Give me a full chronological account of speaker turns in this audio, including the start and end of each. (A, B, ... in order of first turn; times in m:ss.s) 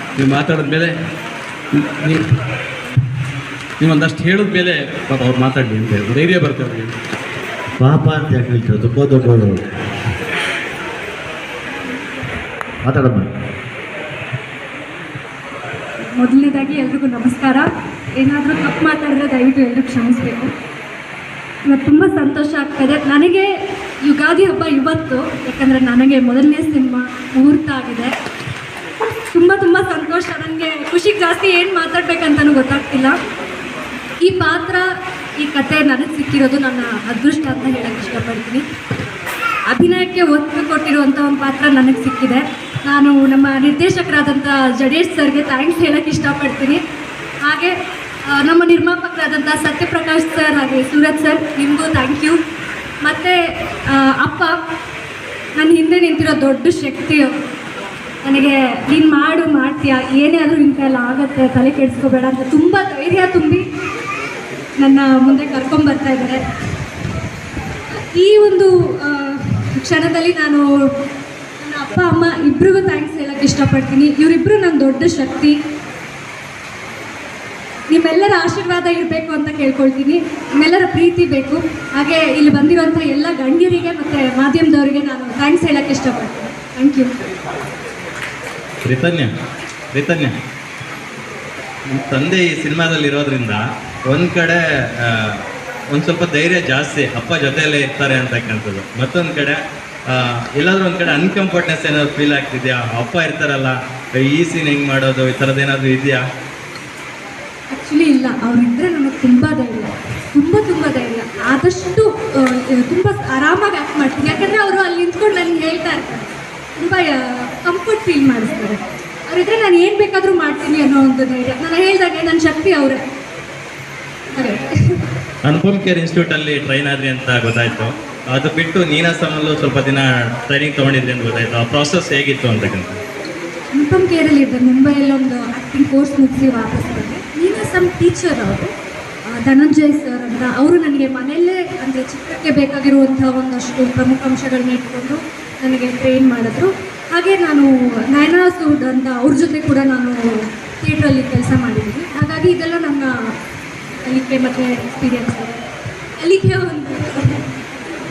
0:00.2-0:00.9 A
0:03.8-0:06.9 A
0:07.8-0:09.6 B
0:12.8-0:13.3 B
0:16.2-0:17.7 C
0:18.2-0:20.5 C
0:21.7-0:23.5 C
0:24.0-0:28.1 C
0:29.3-0:33.1 C
0:34.2-0:34.8 C
0:35.4-0:38.6 C
0:39.7-0:46.8 C
0:47.4-0:47.7 C
0:48.3-0:52.4 C
0:53.0-0:53.4 C
0:53.9-0:54.5 C
0:55.6-0:57.3 C
0:58.2-1:03.6 C
1:04.8-1:06.4 C
1:08.1-1:10.6 C
1:11.6-1:15.5 C
1:17.9-1:27.1 C
1:28.9-1:29.3 D
1:29.9-1:30.3 D
1:31.9-1:33.6 D
1:34.1-1:35.4 D
1:35.9-1:39.6 D
1:40.1-1:46.2 D
1:47.7-2:03.0 C
2:04.4-2:04.6 C
2:05.4-2:13.0 D
2:13.7-2:18.7 C
2:19.4-2:30.1 C
2:30.8-2:33.1 C
2:34.0-2:35.6 C
2:36.2-2:37.4 C